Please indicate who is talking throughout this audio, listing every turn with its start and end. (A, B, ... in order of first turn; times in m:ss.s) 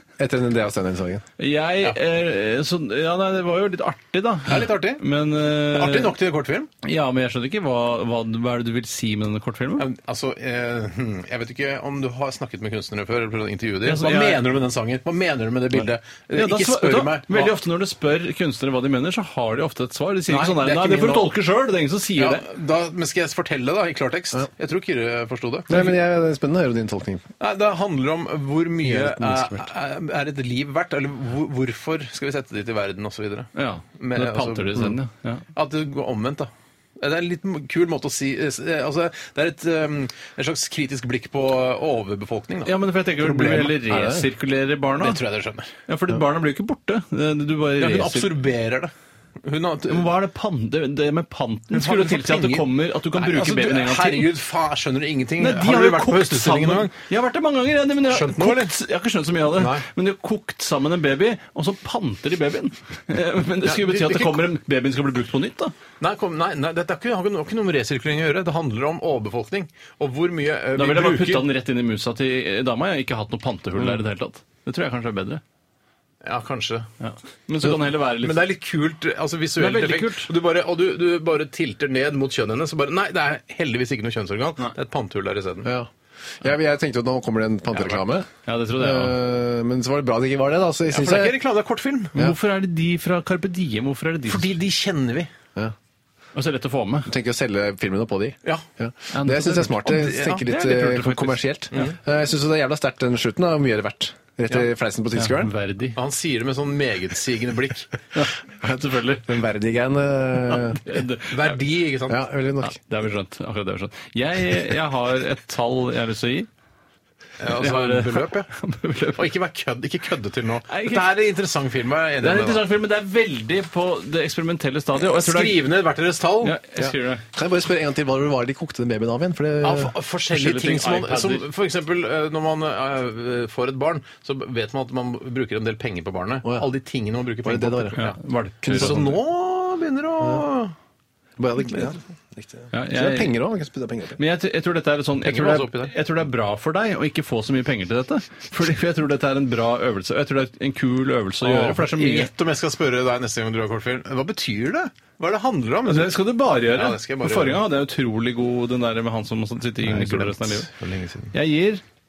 0:00.2-0:01.2 A
0:01.4-0:06.1 B
0:04.5-0:05.0 C
0:05.7-0:06.7 C
0:06.8-0:09.9 B
0:09.8-0:17.5 C
0:13.8-0:14.4 B
0:15.8-0:22.4 B
0:20.3-0:21.4 C
0:22.2-0:25.9 C
0:25.7-0:27.2 A
0:27.4-0:35.0 C
0:28.8-0:29.6 A
0:33.5-0:35.4 B
0:35.5-0:43.8 C
0:42.6-0:45.2 B
0:43.8-0:44.2 A
0:45.0-0:45.7 C
0:45.9-0:48.3 B
0:47.8-0:48.9 C
0:49.4-0:50.1 C
0:49.9-0:54.3 B
0:51.7-0:56.9 C
0:55.4-1:05.7 B
0:58.1-0:58.8 C
0:59.5-0:59.8 C
1:03.6-1:04.4 C
1:06.0-1:11.5 C
1:10.8-1:15.4 B
1:16.2-1:16.9 C
1:17.0-1:18.4 B
1:17.6-1:25.7 C
1:19.6-1:20.3 B
1:25.6-1:25.9 A
1:26.4-1:31.3 A
1:28.4-1:29.2 B
1:30.9-1:32.3 C
1:32.1-1:34.5 B
1:34.3-1:35.3 C
1:36.3-1:37.1 B
1:37.0-1:45.5 A
1:39.1-1:41.9 B
1:39.9-1:40.4 C
1:45.2-1:46.0 B
1:46.0-1:47.9 C
1:48.1-1:49.3 B
1:49.2-1:50.8 A
1:50.7-1:51.6 B
1:51.3-1:52.2 C
1:52.1-1:52.8 A
1:52.6-1:56.5 B
1:57.4-1:58.5 C
1:57.5-1:59.3 B
1:59.2-2:02.6 C
2:00.7-2:01.0 B
2:02.2-2:05.6 B
2:05.0-2:06.6 C
2:06.4-2:07.2 B
2:06.8-2:09.9 A
2:09.6-2:18.2 C
2:10.3-2:11.5 B
2:17.4-2:18.0 A
2:18.0-2:19.2 B
2:18.6-2:19.0 A
2:18.7-2:20.7 C
2:21.4-2:24.2 A
2:22.7-2:23.3 B
2:24.2-2:32.3 B
2:25.2-2:25.9 C
2:31.4-2:37.6 C
2:35.8-2:40.7 B
2:39.8-2:41.3 C
2:41.3-2:41.8 B